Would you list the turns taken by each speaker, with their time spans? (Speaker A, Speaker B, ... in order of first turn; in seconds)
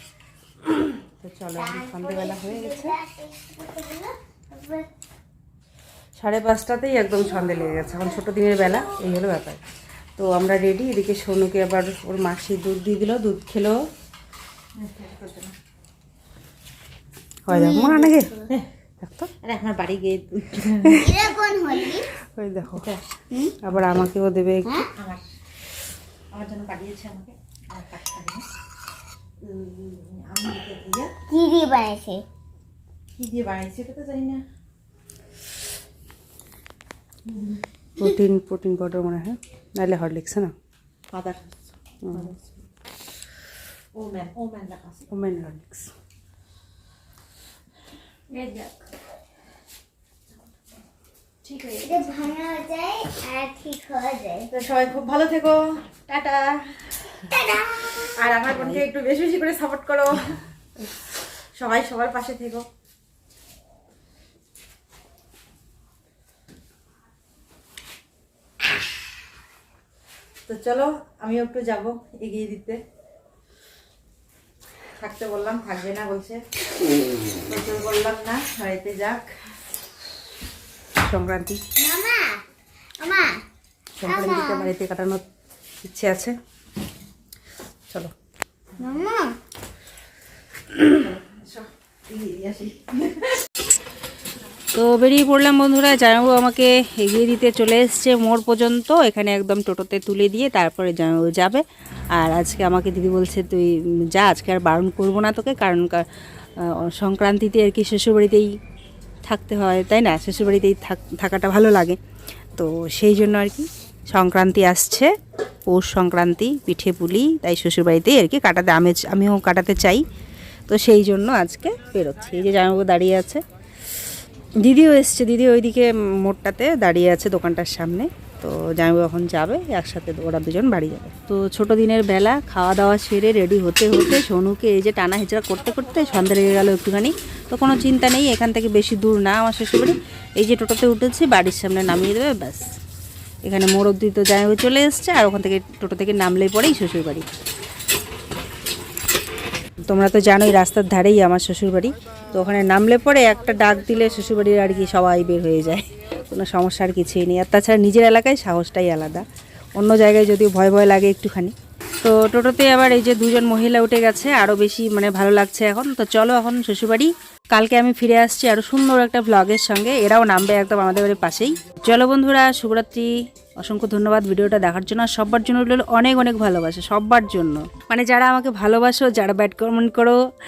Speaker A: 0.7-3.0, 6.2-9.6, 10.2-13.8, 17.5-18.3, 19.0-19.3, 22.4-22.9, 23.6-24.7, 38.0-40.5, 42.0-42.3, 45.1-45.9, 58.5-58.8, 81.0-81.6, 84.0-85.2, 85.8-86.3, 94.7-101.6, 102.1-106.0, 106.6-108.5, 109.3-112.0, 112.6-115.1, 115.7-120.0, 120.7-123.4, 124.6-142.7, 143.5-147.3, 149.9-159.2, 159.8-180.2
Speaker B: 1.6-4.9, 17.5-18.4, 21.0-22.1, 31.3-32.2, 51.8-54.5, 57.3-57.9, 81.8-82.4, 83.0-83.4, 84.0-84.7, 88.8-89.3
Speaker C: 14.8-15.5, 19.4-21.1, 25.0-25.2, 26.3-28.4, 29.4-31.1, 33.2-34.4, 37.3-37.6, 41.1-42.6, 43.9-45.1, 48.3-48.7, 51.4-52.0, 54.5-56.8, 58.2-60.4, 61.6-62.6, 70.5-72.8, 75.0-76.4, 77.5-79.2, 90.9-93.3